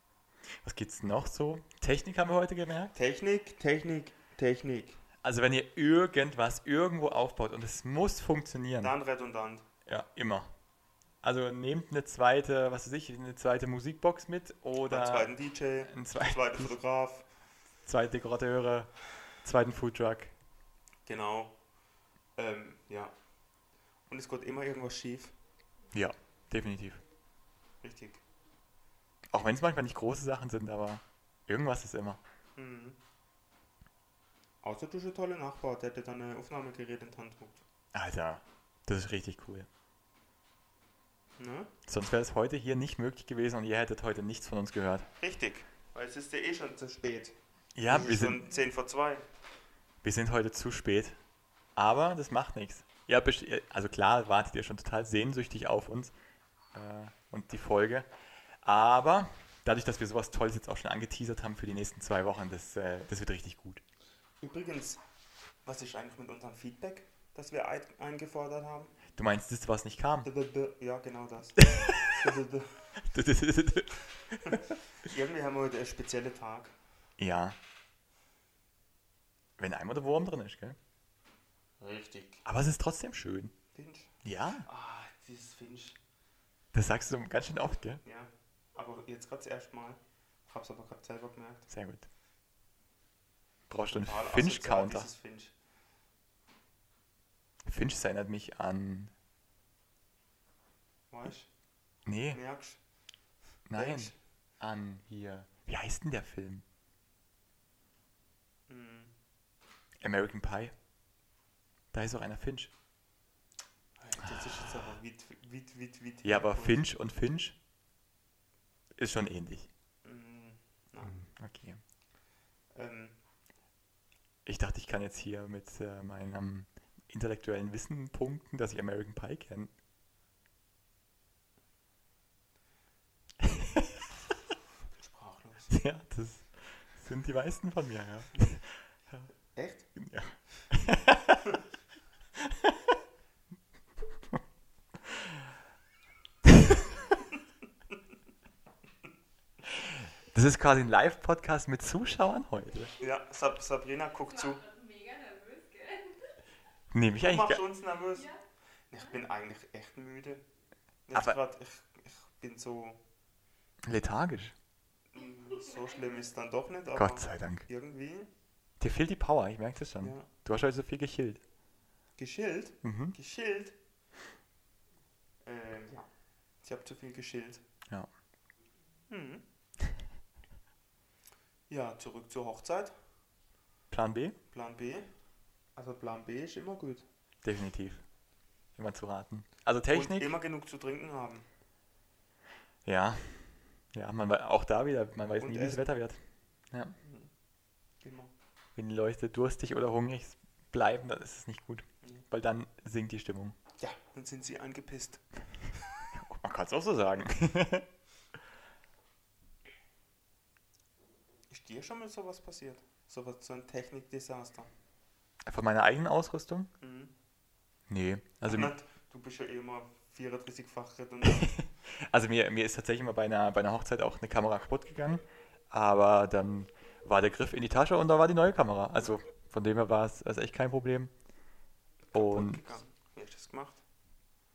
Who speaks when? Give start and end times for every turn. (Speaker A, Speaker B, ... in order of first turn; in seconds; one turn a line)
Speaker A: 0.5-2.9
Speaker B: 2.9-5.0
Speaker A: 5.2-8.9
Speaker B: 8.8-9.7
Speaker A: 9.8-10.5
Speaker A: 11.2-15.3
Speaker B: 14.9-17.2
Speaker A: 15.9-16.7
Speaker A: 17.9-20.3
Speaker B: 21.1-21.5
Speaker B: 22.4-23.1
Speaker B: 24.1-25.3
Speaker A: 25.9-27.0
Speaker B: 27.8-28.2
Speaker A: 29.3-32.2
Speaker B: 32.5-33.0
Speaker B: 34.6-37.6
Speaker A: 37.9-39.7
Speaker B: 41.4-41.7
Speaker A: 41.9-45.1
Speaker B: 45.2-47.3
Speaker A: 47.7-48.4
Speaker B: 47.9-49.2
Speaker A: 50.0-51.2
Speaker A: 51.8-56.1
Speaker A: 56.7-58.1
Speaker A: 58.6-63.8
Speaker B: 64.4-65.0
Speaker B: 65.6-68.9
Speaker A: 69.1-70.3
Speaker B: 70.2-72.8
Speaker A: 71.6-72.3
Speaker A: 73.0-74.6
Speaker B: 74.5-76.7
Speaker A: 77.2-77.6
Speaker A: 79.6-80.8
Speaker B: 81.8-82.4
Speaker A: 82.4-83.5
Speaker B: 83.7-84.1
Speaker A: 84.2-84.7
Speaker B: 84.7-86.0
Speaker A: 86.7-88.0
Speaker B: 88.0-91.7
Speaker A: 91.7-92.0
Speaker A: 93.7-95.1
Speaker B: 93.9-95.5
Speaker A: 97.6-99.1
Speaker B: 101.1-101.5
Speaker A: 102.0-102.4
Speaker B: 102.3-102.8
Speaker A: 103.7-106.6
Speaker B: 103.7-104.2
Speaker B: 108.7-109.1
Speaker A: 110.0-110.7
Speaker A: 111.9-112.7
Speaker B: 114.0-116.8
Speaker A: 116.2-117.5
Speaker A: 119.0-119.7
Speaker B: 120.0-121.2
Speaker A: 121.1-121.8
Speaker B: 122.8-123.2
Speaker A: 124.5-129.7
Speaker A: 133.4-134.0
Speaker B: 135.0-135.8
Speaker A: 135.7-139.3
Speaker B: 139.5-139.9
Speaker A: 139.9-141.4
Speaker A: 142.3-142.9
Speaker A: 145.0-145.4
Speaker A: 146.4-146.8
Speaker A: 149.7-152.9
Speaker B: 153.0-154.6
Speaker C: 154.3-156.3
Speaker A: 156.9-157.6
Speaker B: 157.2-158.3
Speaker C: 158.1-158.4
Speaker B: 158.9-160.4
Speaker B: 161.1-163.0
Speaker A: 163.8-164.5
Speaker B: 165.1-168.3
Speaker C: 165.5-166.2
Speaker A: 166.9-167.7
Speaker A: 168.8-171.4
Speaker B: 170.0-170.3
Speaker B: 172.2-173.8
Speaker A: 172.8-173.1
Speaker B: 175.4-176.1
Speaker B: 176.6-177.6
Speaker B: 179.1-179.4
Speaker B: 181.7-182.9
Speaker A: 183.9-184.3
Speaker B: 184.5-185.1
Speaker B: 185.8-187.0
Speaker A: 187.4-188.0
Speaker A: 188.8-190.3
Speaker B: 189.9-191.4
Speaker A: 192.8-196.2
Speaker B: 195.4-195.8
Speaker A: 196.7-196.9
Speaker B: 197.0-197.3
Speaker B: 198.0-198.3
Speaker A: 198.8-203.6
Speaker B: 203.8-205.2
Speaker A: 206.1-207.8
Speaker B: 211.5-214.7
Speaker A: 215.4-216.7
Speaker B: 216.8-217.1
Speaker A: 217.9-218.7
Speaker B: 218.5-221.6
Speaker A: 221.2-231.1
Speaker B: 232.1-233.8
Speaker A: 232.1-232.6